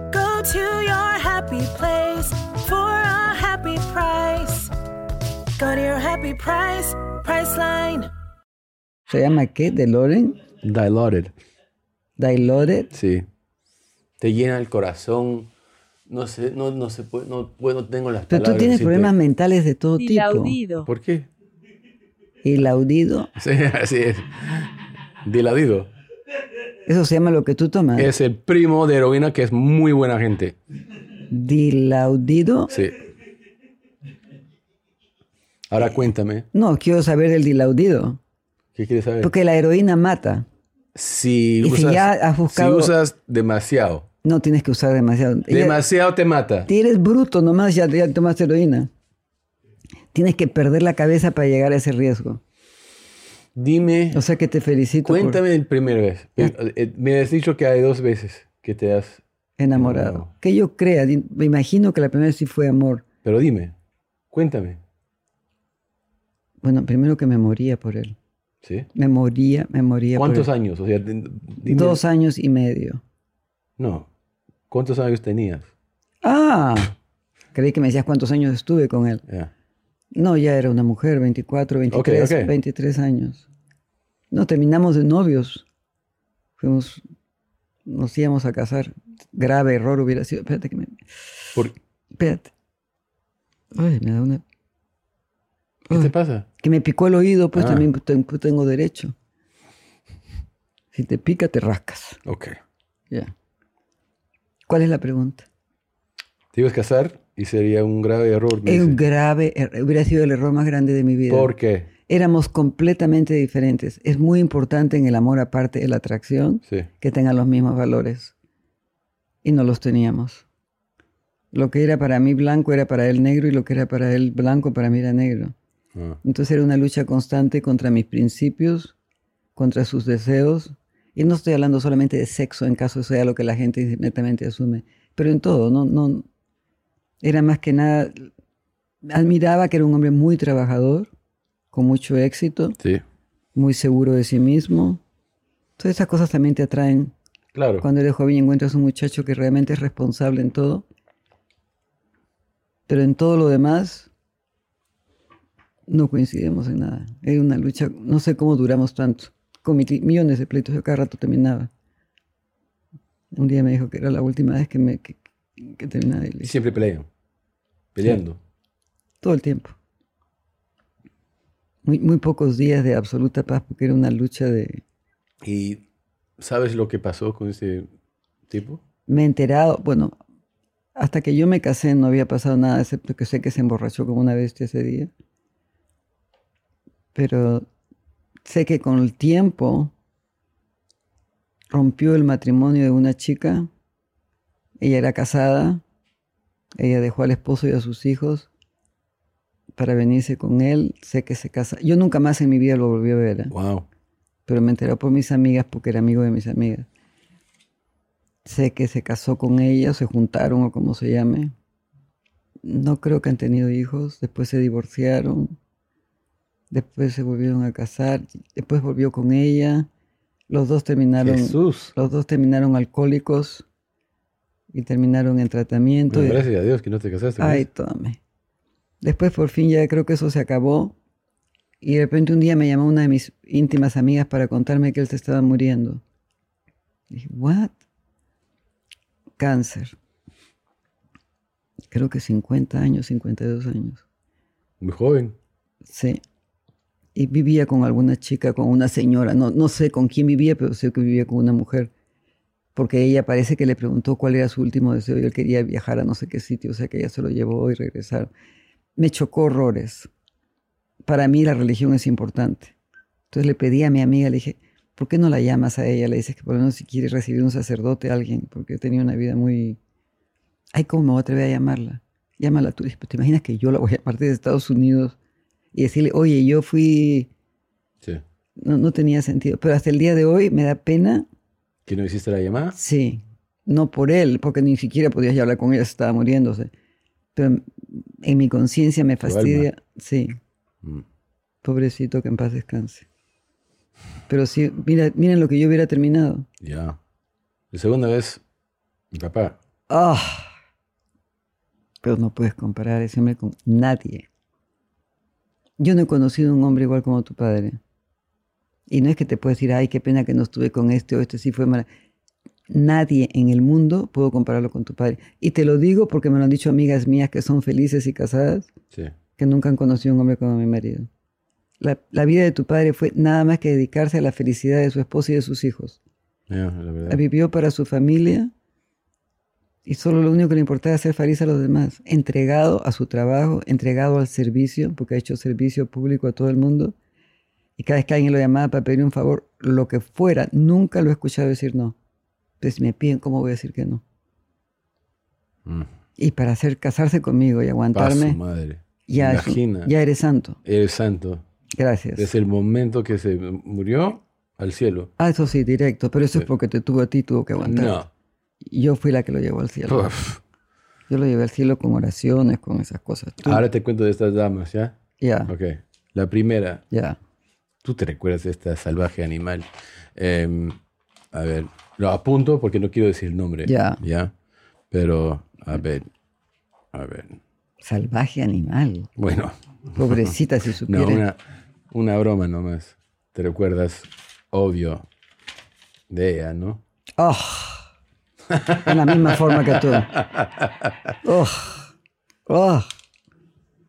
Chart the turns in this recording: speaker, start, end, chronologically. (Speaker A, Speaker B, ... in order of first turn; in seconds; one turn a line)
Speaker A: 0.1-4.7
Speaker A: 5.6-8.1
Speaker B: 9.1-10.4
Speaker C: 10.6-11.3
Speaker B: 12.2-12.9
Speaker C: 12.9-13.2
Speaker C: 14.2-15.5
Speaker C: 16.1-19.1
Speaker B: 18.3-20.6
Speaker A: 20.0-20.9
Speaker C: 20.8-21.3
Speaker B: 22.4-23.3
Speaker C: 23.4-24.7
Speaker C: 25.2-25.9
Speaker B: 26.9-28.1
Speaker C: 27.9-30.6
Speaker B: 31.3-32.7
Speaker C: 32.7-33.0
Speaker C: 35.7-36.5
Speaker B: 36.5-38.2
Speaker C: 38.8-39.3
Speaker B: 39.2-40.5
Speaker C: 40.9-44.1
Speaker B: 41.6-42.9
Speaker B: 44.2-45.8
Speaker C: 45.5-46.7
Speaker B: 46.7-48.9
Speaker B: 50.1-52.4
Speaker C: 53.5-54.2
Speaker B: 54.1-55.4
Speaker C: 55.0-59.2
Speaker B: 59.6-63.0
Speaker C: 59.7-60.3
Speaker C: 63.2-63.7
Speaker C: 64.3-64.8
Speaker B: 66.6-68.2
Speaker C: 68.6-68.9
Speaker B: 68.9-70.5
Speaker C: 70.2-72.0
Speaker B: 71.6-73.0
Speaker C: 73.8-74.1
Speaker C: 74.7-75.7
Speaker B: 76.2-76.9
Speaker B: 77.5-79.2
Speaker B: 80.1-83.5
Speaker C: 81.9-82.5
Speaker B: 84.3-85.6
Speaker B: 86.6-87.0
Speaker B: 87.8-91.0
Speaker B: 92.1-92.5
Speaker B: 93.7-94.4
Speaker B: 95.9-99.1
Speaker C: 95.9-96.5
Speaker C: 97.5-97.8
Speaker B: 100.9-102.2
Speaker C: 102.2-102.6
Speaker B: 104.7-105.5
Speaker C: 106.5-109.0
Speaker B: 108.6-111.5
Speaker C: 111.3-111.9
Speaker B: 112.1-118.3
Speaker B: 119.4-120.4
Speaker B: 121.5-125.5
Speaker B: 126.2-128.9
Speaker B: 129.6-136.2
Speaker B: 137.2-138.3
Speaker B: 139.0-141.1
Speaker B: 141.7-142.8
Speaker B: 143.5-145.0
Speaker B: 145.8-147.1
Speaker C: 147.5-147.9
Speaker B: 147.8-150.8
Speaker B: 152.9-154.1
Speaker B: 155.9-161.7
Speaker B: 163.3-166.5
Speaker C: 166.4-167.1
Speaker C: 167.9-168.4
Speaker B: 169.2-169.7
Speaker B: 171.8-174.8
Speaker C: 175.4-175.8
Speaker C: 176.4-177.9
Speaker C: 178.5-178.8
Speaker B: 179.1-180.1
Speaker B: 180.9-185.1
Speaker B: 187.1-187.7
Speaker B: 188.4-189.9
Speaker B: 191.7-193.7
Speaker B: 194.8-195.8
Speaker B: 196.8-198.5
Speaker B: 199.7-203.5
Speaker C: 203.5-203.8
Speaker B: 204.5-206.9
Speaker B: 208.4-211.5
Speaker B: 212.6-215.6
Speaker B: 216.7-219.9
Speaker B: 220.5-223.6
Speaker C: 221.2-221.9
Speaker B: 224.7-226.4
Speaker C: 226.1-227.7
Speaker B: 227.4-228.2
Speaker B: 229.0-230.9
Speaker B: 231.8-236.0
Speaker B: 237.1-237.7
Speaker B: 239.4-239.9
Speaker B: 241.9-244.0
Speaker C: 244.8-245.3
Speaker B: 245.8-246.2
Speaker B: 247.1-251.9
Speaker B: 252.7-258.3
Speaker B: 258.9-260.1
Speaker B: 261.0-262.7
Speaker B: 263.3-269.8
Speaker B: 270.7-275.1
Speaker B: 275.7-277.3
Speaker B: 278.6-281.3
Speaker C: 281.9-282.8
Speaker B: 282.7-286.7
Speaker B: 287.3-290.4
Speaker C: 289.2-289.7
Speaker B: 291.6-293.1
Speaker B: 294.3-296.5
Speaker C: 296.6-297.0
Speaker C: 297.7-298.4
Speaker C: 299.1-299.6
Speaker B: 299.9-300.5
Speaker B: 302.0-304.3
Speaker B: 305.8-307.8
Speaker B: 308.9-311.9
Speaker B: 312.7-318.7
Speaker B: 319.4-321.1
Speaker B: 321.8-326.0
Speaker C: 326.5-327.2
Speaker B: 327.1-328.5
Speaker B: 329.8-336.9
Speaker B: 337.8-341.9
Speaker B: 342.6-344.0
Speaker B: 346.2-348.4
Speaker C: 347.9-349.9
Speaker B: 349.1-350.6
Speaker C: 350.6-351.4
Speaker B: 351.8-352.3
Speaker C: 352.1-355.1
Speaker B: 355.2-358.0
Speaker C: 357.6-358.1
Speaker B: 358.6-360.2
Speaker C: 359.9-360.4
Speaker B: 361.1-363.6
Speaker C: 363.4-364.9
Speaker B: 365.2-365.5
Speaker C: 365.5-366.8
Speaker B: 366.9-367.2
Speaker C: 367.8-370.8
Speaker C: 371.3-374.3
Speaker B: 373.6-374.0
Speaker C: 374.9-376.1
Speaker C: 376.9-377.4
Speaker B: 377.8-379.1
Speaker C: 379.2-380.3
Speaker B: 379.9-381.2
Speaker C: 380.9-381.4
Speaker C: 381.9-385.1
Speaker C: 386.1-386.8
Speaker B: 387.2-387.9
Speaker C: 388.5-391.1
Speaker B: 388.7-390.2
Speaker B: 391.2-391.9
Speaker B: 392.5-392.9